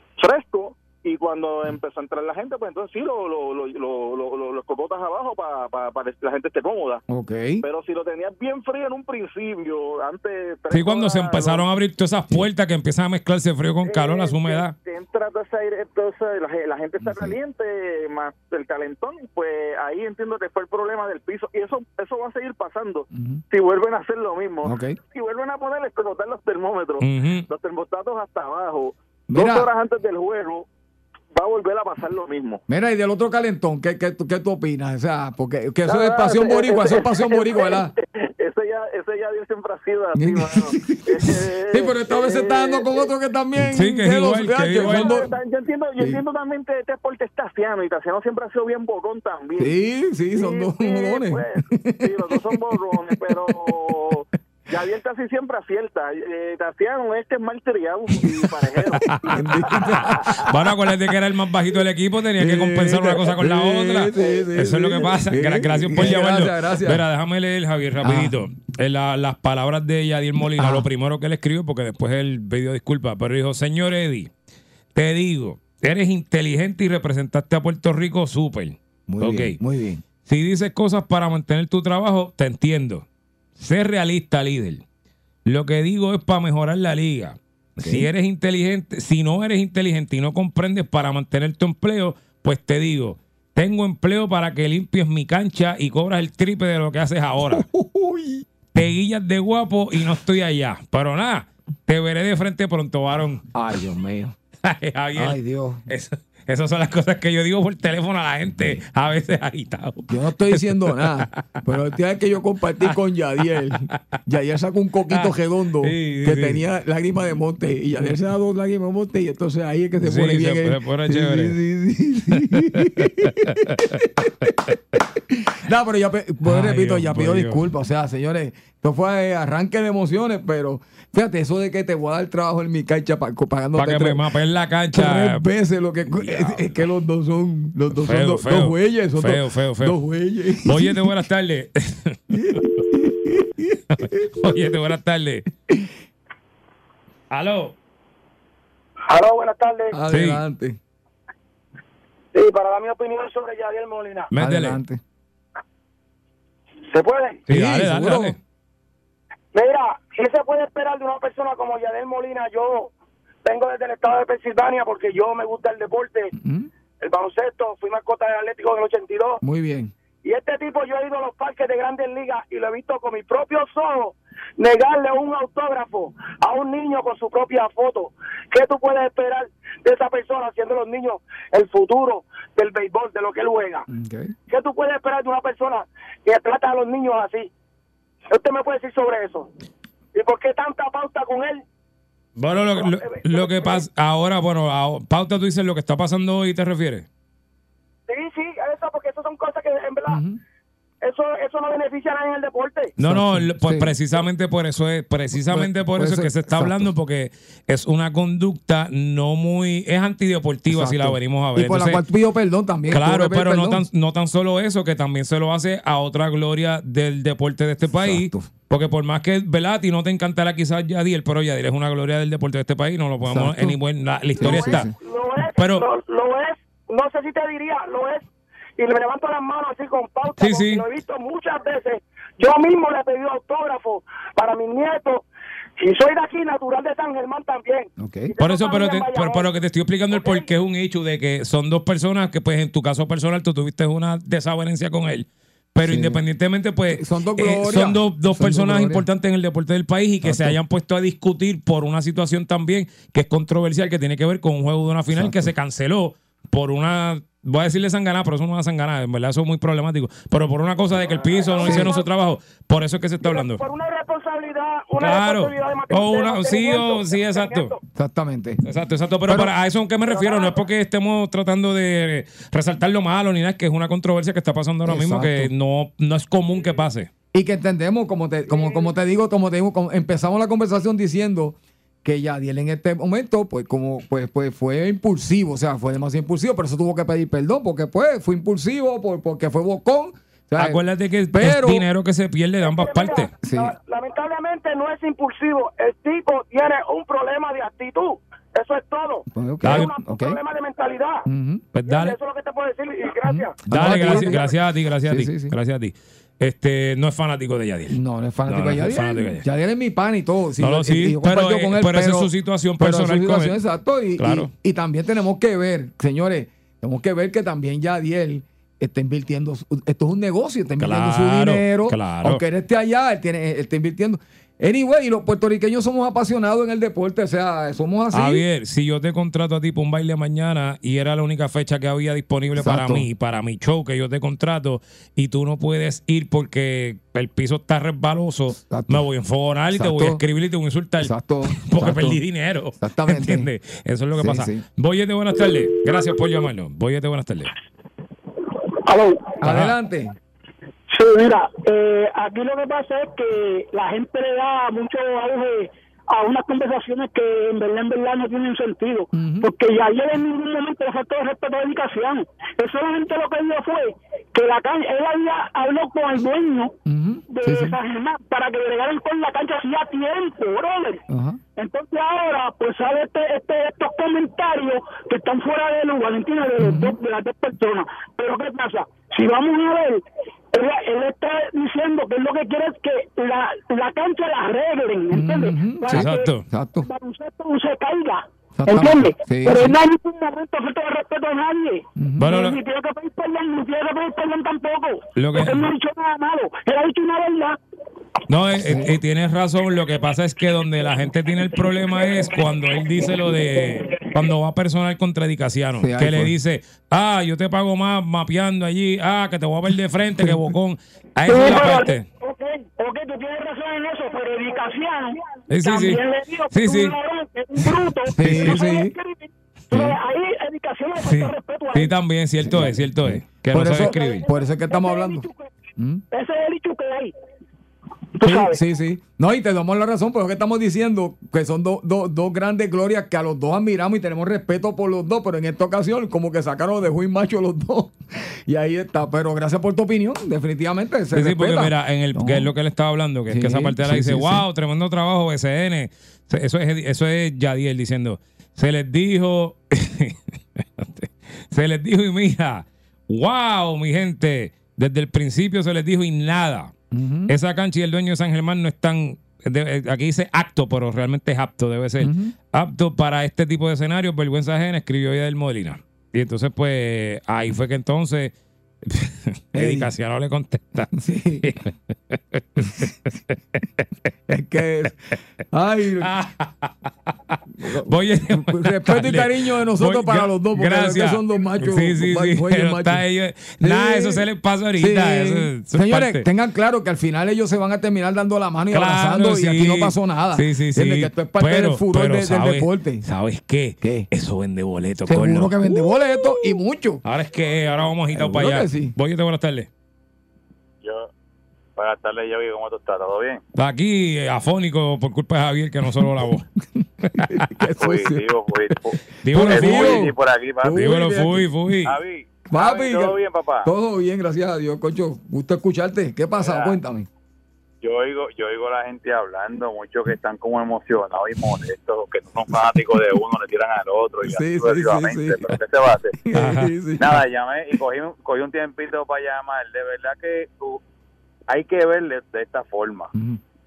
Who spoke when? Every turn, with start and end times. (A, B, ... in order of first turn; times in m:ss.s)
0:00.2-0:07.0 A
0:07.1-0:07.6 B
0:07.6-0:11.7 A
0:10.7-0:14.7 C
0:13.8-0:30.7 A
0:17.0-0:17.4 B
0:23.1-0:23.4 B
0:24.6-0:25.0 B
0:27.0-0:27.4 C
0:29.3-0:29.7 B
0:31.3-0:32.6 A
0:32.7-0:37.9 B
0:35.8-0:43.1 A
0:40.1-0:45.3 B
0:43.7-0:45.2 C
0:44.6-0:49.8 A
0:49.6-0:53.5 B
0:50.3-1:00.2 A
0:59.0-1:14.3 C
0:59.1-1:00.4 B
1:02.4-1:07.0 B
1:04.2-1:04.4 A
1:08.0-1:08.4 B
1:10.4-1:10.9 B
1:14.9-1:19.6 C
1:19.1-1:20.0 B
1:20.2-1:23.0 C
1:23.6-1:24.8 C
1:25.4-1:37.6 C
1:27.8-1:28.1 B
1:37.5-1:38.4 B
1:38.7-1:43.4 C
1:43.5-1:44.4 B
1:44.6-1:51.4 C
1:45.2-1:45.8 B
1:50.1-2:04.5 B
1:55.8-1:56.6 C
2:00.0-2:01.6 C
2:02.4-2:04.0 C
2:05.3-2:14.2 B
2:06.4-2:07.7 C
2:13.8-2:15.4 C
2:14.9-2:21.1 B
2:16.1-2:16.8 C
2:17.9-2:20.0 C
2:20.6-2:22.6 C
2:22.3-2:24.6 B
2:23.9-2:25.4 C
2:27.3-2:27.7 C
2:29.1-2:30.0 D
2:29.9-2:30.8 B
2:30.1-2:30.4 C
2:32.3-2:34.3 D
2:34.3-2:34.8 C
2:34.4-2:35.0 B
2:36.8-2:37.4 D
2:37.5-2:38.4 B
2:37.5-2:38.4 C
2:39.5-2:42.9 D
2:43.4-2:46.3 D
2:46.4-2:46.7 B
2:47.0-2:49.4 D
2:49.4-2:49.9 B
2:50.2-3:03.8 D
3:03.9-3:04.3 B
3:04.5-3:07.5 D
3:08.3-3:09.5 D
3:10.1-3:11.6 D
3:12.4-3:17.0 C
3:12.7-3:13.8 D
3:18.1-3:20.2 D
3:20.1-3:20.4 B
3:21.0-3:22.9 D
3:23.0-3:32.0 C
3:23.0-3:23.9 B
3:25.3-3:26.9 B
3:30.7-3:33.8 B
3:32.9-3:44.9 C
3:37.9-3:38.5 B
3:43.2-3:43.8 B
3:44.4-3:44.9 B
3:44.4-3:55.2 D
3:45.5-3:45.9 C
3:50.4-3:50.8 C
3:55.8-3:59.5 D
3:58.0-3:58.3 B
3:58.4-4:23.6 C
4:00.1-4:00.5 D
4:05.8-4:06.2 B
4:06.9-4:09.0 B
4:10.2-4:10.6 B
4:15.1-4:15.5 B
4:21.0-4:22.0 D
4:21.6-4:21.9 B
4:23.2-4:27.8 D
4:25.0-4:27.7 C
4:27.9-4:28.6 B
4:28.6-4:37.1 C
4:29.3-4:29.5 B
4:30.1-4:30.6 D
4:34.8-4:35.5 B
4:37.3-4:51.8 B
4:38.5-4:38.9 D
4:50.6-4:53.3 C
4:52.6-5:01.3 D
4:53.4-4:53.7 B
4:59.3-5:00.4 B
4:59.6-4:59.9 C
5:01.3-5:01.6 B
5:01.7-5:02.2 C
5:01.8-5:04.4 D
5:03.3-5:05.5 B
5:03.7-5:09.4 C
5:07.9-5:28.4 B
5:10.6-5:13.6 C
5:14.2-5:14.5 C
5:20.8-5:22.4 C
5:28.1-5:47.5 C
5:32.5-5:33.1 B
5:38.7-5:39.0 B
5:39.7-5:40.2 B
5:41.0-5:42.2 B
5:42.8-5:43.5 B
5:44.2-5:44.6 B
5:48.8-5:49.4 E
5:49.4-5:50.1 B
5:49.4-5:49.7 C
5:50.9-6:06.8 E
5:59.1-5:59.5 B
6:06.8-6:07.8 B
6:07.3-6:11.0 E
6:11.1-6:11.4 B
6:11.6-6:37.6 E
6:16.6-6:17.0 B
6:25.1-6:26.9 B
6:25.9-6:26.4 C
6:28.5-6:29.7 B
6:32.0-6:32.3 B
6:32.2-6:32.6 C
6:35.2-6:35.7 C
6:38.3-6:52.1 C
6:38.5-6:39.0 B
6:45.8-6:46.3 B
6:51.3-7:01.9 E
6:55.5-6:56.9 C
6:58.2-6:58.9 B
6:58.2-6:58.6 C
7:01.0-7:04.2 C
7:02.4-7:06.0 B
7:03.8-7:05.5 E
7:06.1-7:07.1 E
7:08.2-7:08.6 E
7:08.3-7:22.5 B
7:21.1-7:36.7 C
7:23.3-7:24.4 B
7:36.9-7:37.3 B
7:37.3-7:48.3 C
7:42.0-7:42.3 B
7:48.8-7:53.3 C
7:49.5-7:49.9 B
7:50.9-7:51.6 B
7:54.3-7:56.1 B
7:56.0-8:06.2 C
7:57.5-8:03.0 B
8:03.6-8:04.2 B
8:04.8-8:13.0 B
8:08.7-8:15.9 C
8:13.8-8:14.1 B
8:15.0-8:17.0 B
8:17.0-8:19.7 C
8:17.5-8:17.9 F
8:18.1-8:18.9 B
8:20.8-8:21.1 F
8:21.8-8:23.4 F
8:23.6-8:26.5 C
8:26.8-8:28.8 B
8:27.8-8:30.8 F
8:29.2-8:30.1 C
8:29.3-8:31.5 B
8:30.7-8:32.0 C
8:31.8-8:33.7 F
8:32.5-8:37.1 B
8:36.4-8:36.8 F
8:37.8-8:46.2 F
8:44.2-8:45.6 B
8:46.2-8:47.2 B
8:46.3-8:46.7 C
8:47.0-8:50.8 F
8:51.5-8:53.1 F
8:53.1-8:53.4 B